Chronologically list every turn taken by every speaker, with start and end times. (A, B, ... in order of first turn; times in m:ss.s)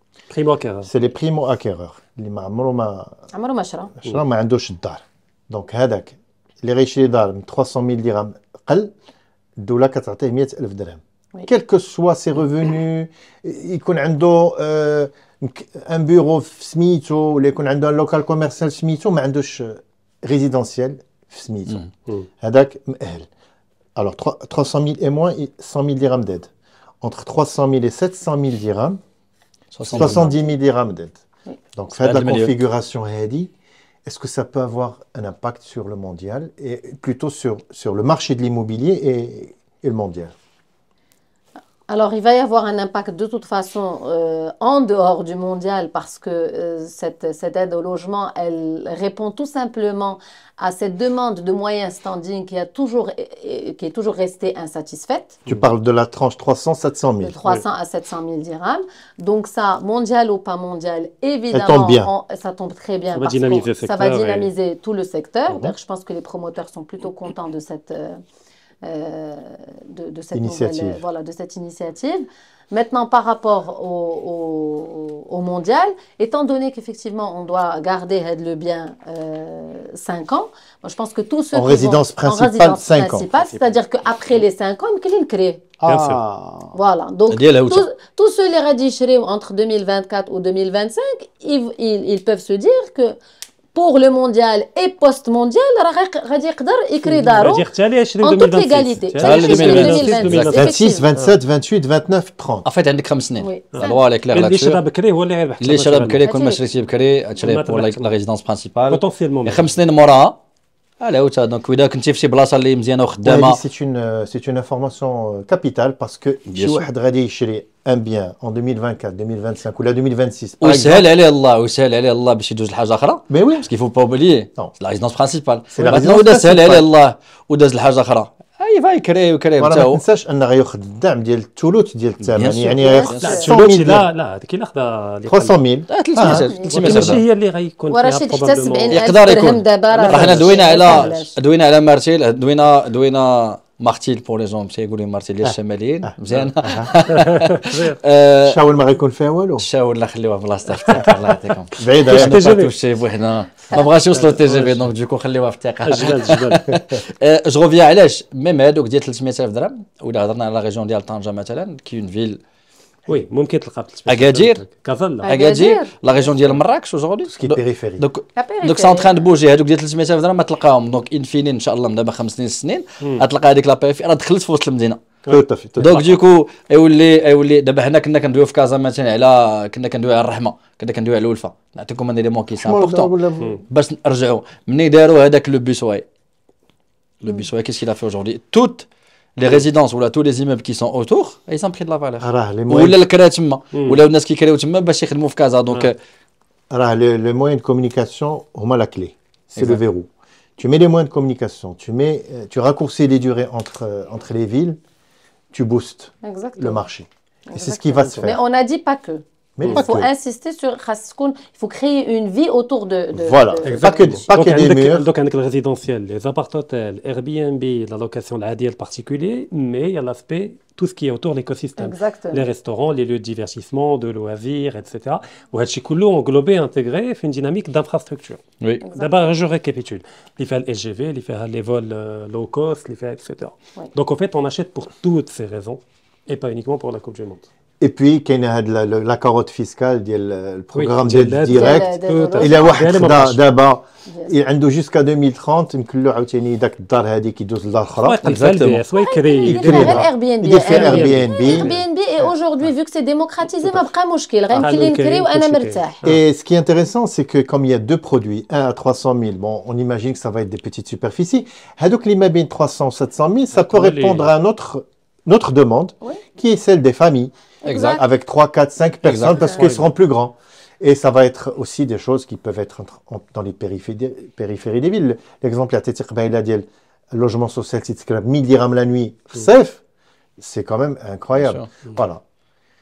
0:00.3-0:00.9 A
0:00.8-0:03.1 B
0:03.3-0:03.9 C
0:04.0-0:08.9 B
0:09.6-0:21.8 B
0:22.4-0:23.3 B
0:24.0-0:26.5 B
0:27.0-0:29.0 B
0:29.7-0:30.3 D
0:29.9-0:31.2 B
0:29.9-0:30.1 A
0:31.8-0:33.5 B
0:32.0-0:32.5 D
0:34.0-0:40.3 B
0:41.9-0:55.4 C
0:55.5-0:57.4 B
0:57.2-1:08.2 C
1:01.5-1:02.1 B
1:03.1-1:04.5 A
1:08.8-1:25.7 C
1:10.3-1:11.0 B
1:21.5-1:23.3 B
1:25.8-1:26.7 B
1:25.9-1:26.2 A
1:26.7-1:33.2 C
1:27.3-1:27.8 D
1:33.7-1:37.7 C
1:37.0-1:41.4 A
1:38.2-1:41.1 C
1:39.2-1:40.7 D
1:40.5-1:42.6 B
1:42.6-1:44.8 D
1:43.4-1:44.0 C
1:43.8-1:46.2 A
1:45.6-1:50.4 D
1:46.2-1:46.6 C
1:47.4-1:48.1 A
1:48.9-1:49.7 A
1:51.0-1:53.6 D
1:53.2-2:01.1 B
1:56.5-1:56.8 D
2:00.6-2:10.0 D
2:03.3-2:03.7 B
2:05.7-2:06.9 B
2:09.6-2:14.1 B
2:12.2-2:13.6 D
2:12.8-2:13.5 C
2:13.2-2:15.6 A
2:15.3-2:16.5 B
2:15.9-2:17.2 D
2:16.2-2:19.0 A
2:16.3-2:17.2 C
2:17.9-2:21.3 C
2:18.9-2:28.6 D
2:20.0-2:21.1 A
2:26.6-2:26.9 B
2:27.1-2:27.9 A
2:28.4-2:29.7 B
2:29.6-2:42.4 D
2:31.8-2:32.5 B
2:32.0-2:32.7 A
2:34.1-2:34.9 A
2:35.8-2:36.8 A
2:43.1-2:45.3 A
2:44.1-2:44.6 D
2:45.2-2:55.0 D
2:45.2-2:46.3 C
2:47.2-2:48.0 B
2:48.4-2:49.2 C
2:55.2-2:56.1 B
2:55.8-3:06.0 D
3:02.5-3:03.6 B
3:07.2-3:16.0 D
3:12.2-3:13.0 B
3:13.7-3:14.0 A
3:16.7-3:24.8 B
3:25.5-3:28.4 B
3:26.2-3:26.8 C
3:27.5-3:34.3 C
3:29.6-3:30.1 B
3:33.1-3:35.1 B
3:33.6-3:48.4 A
3:41.8-3:42.4 C
3:48.8-3:49.3 C
3:48.9-3:57.4 A
3:57.8-4:08.2 B
4:00.7-4:03.4 A
4:01.5-4:02.8 C
4:04.1-4:04.3 C
4:08.0-4:10.1 A
4:08.2-4:08.8 D
4:08.9-4:16.0 C
4:09.4-4:12.3 B
4:10.6-4:11.8 A
4:14.5-4:16.2 A
4:16.0-4:39.8 B
4:23.5-4:24.3 A
4:27.6-4:28.0 C
4:27.6-4:28.0 D
4:29.0-4:29.6 D
4:29.5-4:29.9 A
4:40.4-4:42.2 B
4:41.3-4:41.7 D